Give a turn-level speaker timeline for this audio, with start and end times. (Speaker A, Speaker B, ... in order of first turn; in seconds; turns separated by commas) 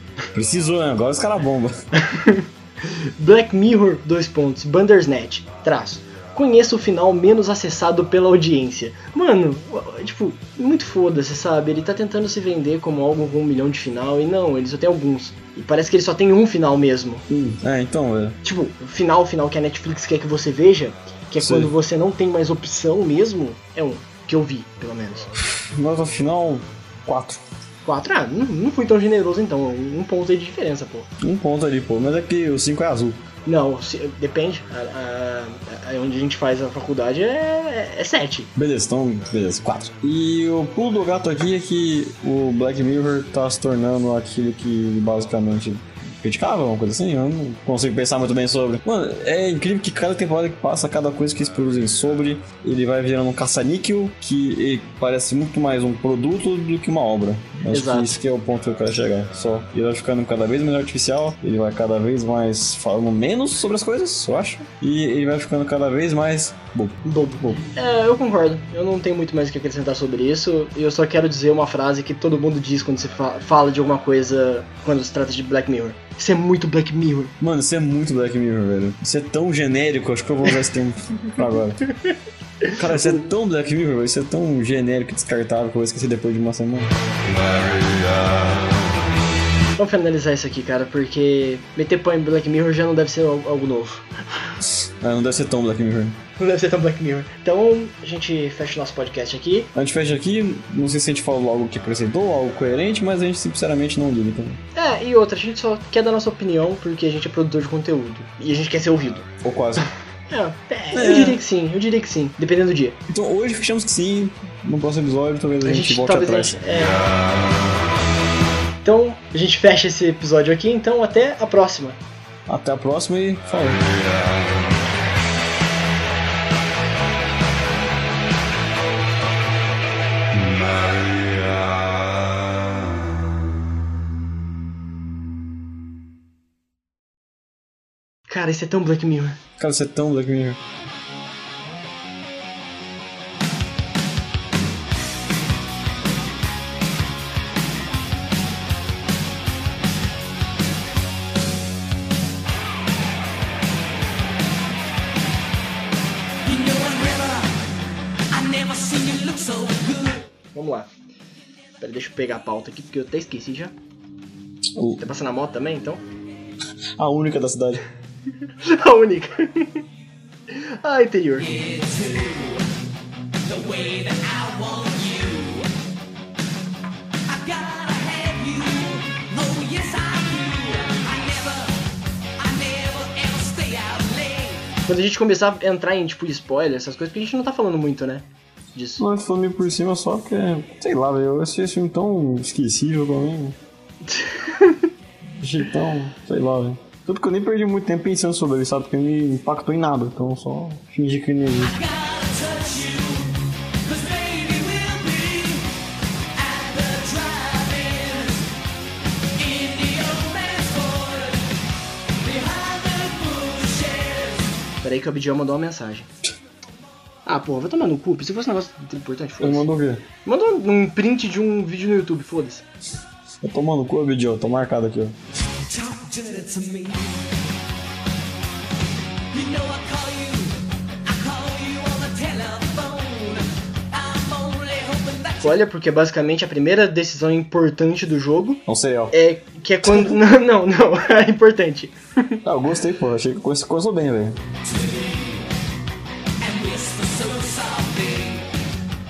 Speaker A: 0.3-1.7, Speaker B: 1.9-17.2, Speaker A: 17.3-18.4, Speaker B: 18.4-25.3, Speaker A: 21.4-21.7, Speaker A: 25.4-27.4, Speaker B: 27.8-31.1, Speaker A: 31.2-33.2, Speaker B: 33.5-38.5, Speaker A: 38.6-67.6, Speaker B: 57.7-58.2, Speaker B: 67.0-77.3, Speaker A: 77.4-81.8, Speaker B: 81.9-83.3, Speaker A: 82.7-86.9, Speaker B: 89.8-94.5, Speaker A: 94.6-96.2, Speaker B: 96.4-99.7, Speaker A: 99.8-104.6, Speaker B: 104.8-109.3, Speaker A: 109.4-109.9, Speaker B: 110.3-113.0, Speaker A: 110.9-111.4, Speaker A: 113.1-116.6, Speaker B: 115.6-117.0, Speaker B: 118.8-122.0, Speaker A: 122.5-123.8, Speaker B: 138.3-139.4, Speaker A: 139.6-140.6, Speaker C: 156.4-157.6, Speaker C: 158.3-160.2, Speaker B: 160.5-160.9, Speaker B: 161.8-163.7, Speaker A: 164.8-165.0, Speaker B: 165.0-166.0, Speaker A: 167.0-167.8, Speaker B: 168.6-169.8, Speaker B: 170.5-171.6, Speaker C: 171.4-172.8, Speaker C: 173.4-175.7, Speaker C: 177.3-181.8, Speaker C: 182.4-184.7, Speaker B: 184.9-189.0, Speaker A: 189.0-193.6, Speaker B: 194.1-194.9, Speaker A: 195.3-201.8, Speaker C: 201.6-205.7, Speaker C: 206.3-208.5, Speaker C: 209.4-211.6, Speaker C: 212.2-214.6, Speaker B: 214.8-216.1, Speaker B: 217.3-219.7, Speaker A: 219.4-220.1, Speaker B: 220.2-222.6, Speaker A: 223.4-225.2, Speaker C: 225.7-227.2, Speaker C: 229.3-235.6, Speaker B: 235.4-242.4, Speaker A: 238.7-239.2, Speaker A: 239.9-240.1, Speaker A: 242.4-244.4, Speaker C: 244.7-245.5, Speaker C: 246.4-248.5